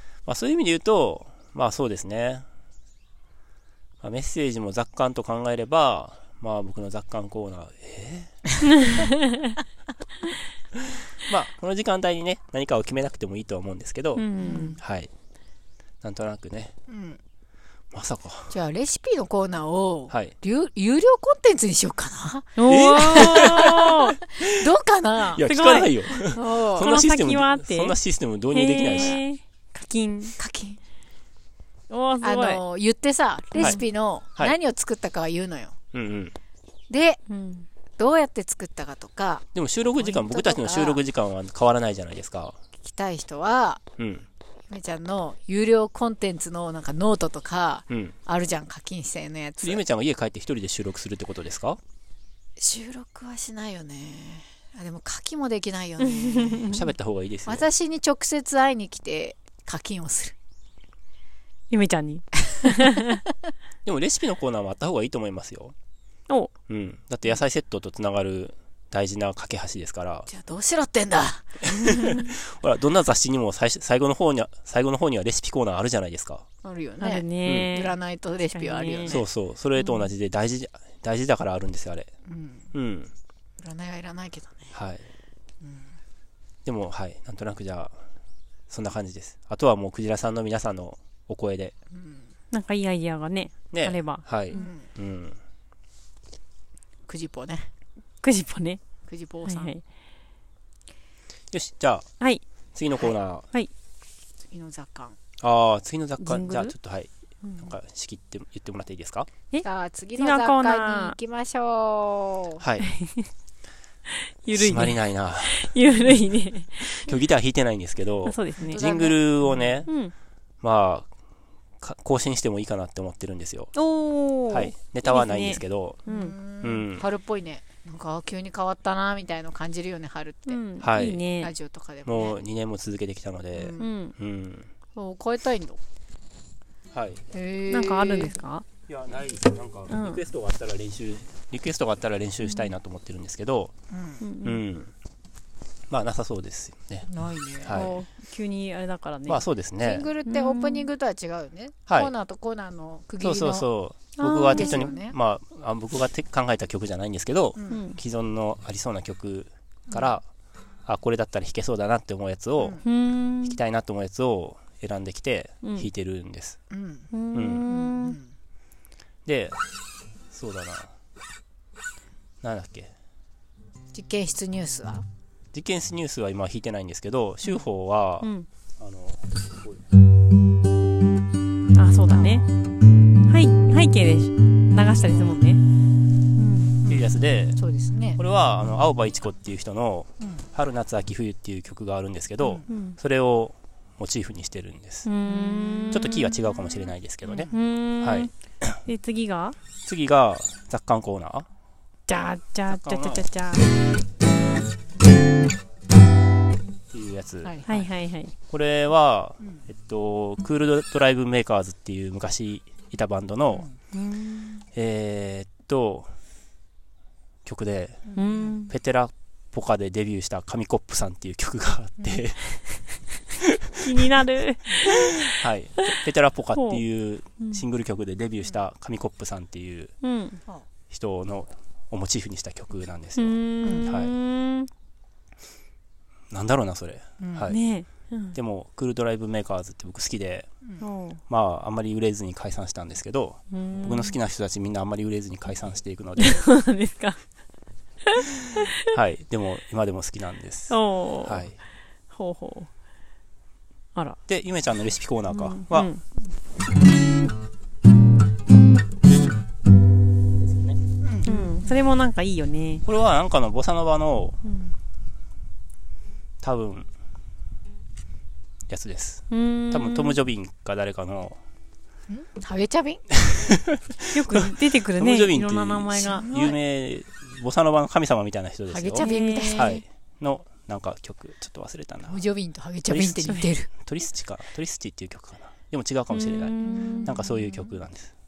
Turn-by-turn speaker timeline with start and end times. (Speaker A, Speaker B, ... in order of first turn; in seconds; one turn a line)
Speaker A: 0.3-2.5
Speaker A: 4.0-8.4
Speaker B: 8.8-9.6
Speaker A: 11.2-14.3
Speaker B: 14.2-14.8
Speaker C: 14.4-14.8
Speaker A: 14.8-15.1
Speaker A: 16.0-16.7
Speaker C: 16.9-17.2
Speaker A: 17.9-18.6
Speaker C: 18.5-22.6
Speaker B: 22.6-24.2
Speaker A: 22.7-24.5
Speaker C: 23.1-23.6
Speaker C: 24.4-25.5
Speaker A: 25.4-29.2
Speaker B: 25.4-26.2
Speaker C: 26.3-26.9
Speaker B: 26.8-28.0
Speaker B: 28.5-30.4
Speaker C: 28.9-29.2
Speaker C: 30.4-30.8
Speaker B: 31.9-32.6
Speaker C: 32.2-35.8
Speaker A: 35.9-36.4
Speaker C: 36.9-37.2
Speaker B: 37.3-37.7
Speaker C: 38.0-39.5
Speaker A: 39.5-42.6
Speaker C: 40.0-41.0
Speaker C: 42.8-43.8
Speaker A: 44.0-44.3
Speaker C: 44.7-49.8
Speaker A: 47.9-48.1
Speaker A: 49.6-51.8
Speaker C: 52.6-56.7
Speaker B: 56.0-56.9
Speaker A: 56.6-57.7
Speaker C: 57.5-60.4
Speaker B: 61.7-63.2
Speaker A: 63.9-65.7
Speaker A: 66.7-70.3
Speaker C: 70.3-72.2
Speaker A: 71.7-76.5
Speaker C: 76.6-79.3
Speaker B: 77.0-78.0
Speaker A: 77.4-77.7
Speaker B: 78.5-79.2
Speaker A: 79.1-82.1
Speaker B: 79.8-80.1
Speaker C: 82.3-82.7
Speaker A: 82.7-83.1
Speaker C: 83.6-84.7
Speaker A: 84.7-85.1
Speaker C: 85.6-86.0
Speaker A: 86.7-88.0
Speaker A: 88.7-91.7
Speaker C: 91.9-92.3
Speaker B: 92.5-94.7
Speaker A: 93.7-95.4
Speaker C: 94.5-94.9
Speaker C: 97.1-97.7
Speaker B: 98.2-98.8
Speaker C: 99.1-99.7
Speaker B: 99.5-99.8
Speaker A: 101.5-102.1
Speaker A: 102.7-103.5
Speaker C: 104.5-105.2
Speaker A: 105.4-109.3
Speaker B: 106.2-106.8
Speaker B: 107.4-107.7
Speaker C: 109.6-112.6
Speaker B: 110.2-111.2
Speaker A: 112.6-113.0
Speaker B: 112.8-113.3
Speaker B: 114.2-117.2
Speaker A: 114.5-115.8
Speaker A: 116.8-119.9
Speaker B: 118.2-118.8
Speaker C: 118.6-119.8
Speaker B: 119.9-120.1
Speaker A: 120.6-121.1
Speaker A: 121.8-123.7
Speaker B: 123.7-126.3
Speaker A: 124.5-126.0
Speaker C: 126.1-130.6
Speaker A: 126.6-127.0
Speaker B: 130.5-131.5
Speaker A: 130.8-131.2
Speaker C: 131.4-132.4
Speaker A: 132.1-134.7
Speaker C: 133.5-133.9
Speaker B: 133.8-134.1
Speaker C: 135.0-135.8
Speaker A: 136.9-137.2
Speaker C: 137.3-138.4
Speaker B: 137.7-138.7
Speaker A: 138.9-143.7
Speaker B: 139.9-140.2
Speaker B: 142.5-142.7
Speaker C: 143.9-144.2
Speaker B: 144.2-144.6
Speaker A: 144.4-144.9
Speaker A: 145.9-147.1
Speaker C: 147.1-147.9
Speaker A: 147.6-148.0
Speaker B: 147.7-149.4
Speaker A: 149.3-150.1
Speaker C: 149.8-153.7
Speaker B: 150.3-150.9
Speaker A: 153.2-160.3
Speaker B: 154.2-155.0
Speaker C: 154.5-155.2
Speaker C: 157.6-157.8
Speaker B: 157.7-158.0
Speaker A: 160.9-162.8
Speaker B: 162.8-163.6
Speaker A: 163.4-166.6
Speaker B: 165.6-165.9
Speaker C: 166.7-167.1
Speaker B: 167.1-168.2
Speaker A: 167.3-167.6
Speaker C: 167.7-168.3
Speaker A: 169.3-169.6
Speaker A: 170.3-170.9
Speaker A: 172.4-172.9
Speaker C: 173.9-175.1
Speaker A: 175.5-179.9
Speaker B: 178.2-178.5
Speaker B: 181.7-182.5
Speaker C: 182.1-182.4
Speaker B: 183.3-185.6
Speaker B: 186.3-186.8
Speaker C: 186.8-188.2
Speaker A: 186.9-187.6
Speaker A: 188.2-195.1
Speaker B: 192.7-193.0
Speaker B: 195.1-196.3
Speaker C: 195.3-195.9
Speaker A: 195.9-198.8
Speaker C: 197.3-197.6
Speaker B: 197.5-198.3
Speaker B: 198.8-199.6
Speaker A: 199.8-201.5
Speaker B: 202.1-203.7
Speaker A: 202.7-203.3
Speaker A: 206.9-207.6
Speaker C: 207.4-207.9
Speaker B: 207.7-208.3
Speaker A: 208.5-213.7
Speaker B: 213.9-214.6
Speaker A: 214.7-216.1
Speaker A: 217.4-218.1
Speaker C: 218.1-218.6
Speaker B: 218.2-218.7
Speaker A: 218.7-222.6
Speaker B: 223.7-225.9
Speaker A: 224.8-229.9
Speaker B: 226.5-226.8
Speaker B: 230.0-230.4
Speaker A: 230.9-234.1
Speaker B: 233.2-234.7
Speaker C: 233.6-234.0
Speaker A: 236.3-237.6
Speaker C: 237.2-237.6
Speaker B: 237.5-238.4
Speaker A: 238.3-240.5
Speaker B: 240.8-241.2
Speaker A: 241.3-246.4
Speaker B: 243.5-244.2
Speaker B: 246.2-247.2
Speaker B: 248.1-248.9
Speaker A: 248.9-251.6
Speaker B: 250.7-251.5
Speaker B: 252.1-252.7
Speaker A: 254.3-255.9
Speaker B: 255.3-256.0
Speaker A: 260.4-260.8
Speaker C: 261.0-261.3
Speaker B: 261.2-262.8
Speaker A: 262.9-264.4
Speaker B: 264.4-264.8
Speaker A: 266.4-266.9
Speaker A: 268.7-271.4
Speaker B: 269.3-270.2
Speaker C: 272.1-273.0
Speaker A: 273.2-282.2
Speaker B: 274.1-276.3
Speaker C: 275.9-276.6
Speaker C: 278.7-279.8
Speaker B: 279.0-279.8
Speaker C: 282.1-283.7
Speaker A: 282.9-288.1
Speaker B: 286.1-287.3
Speaker C: 286.6-287.6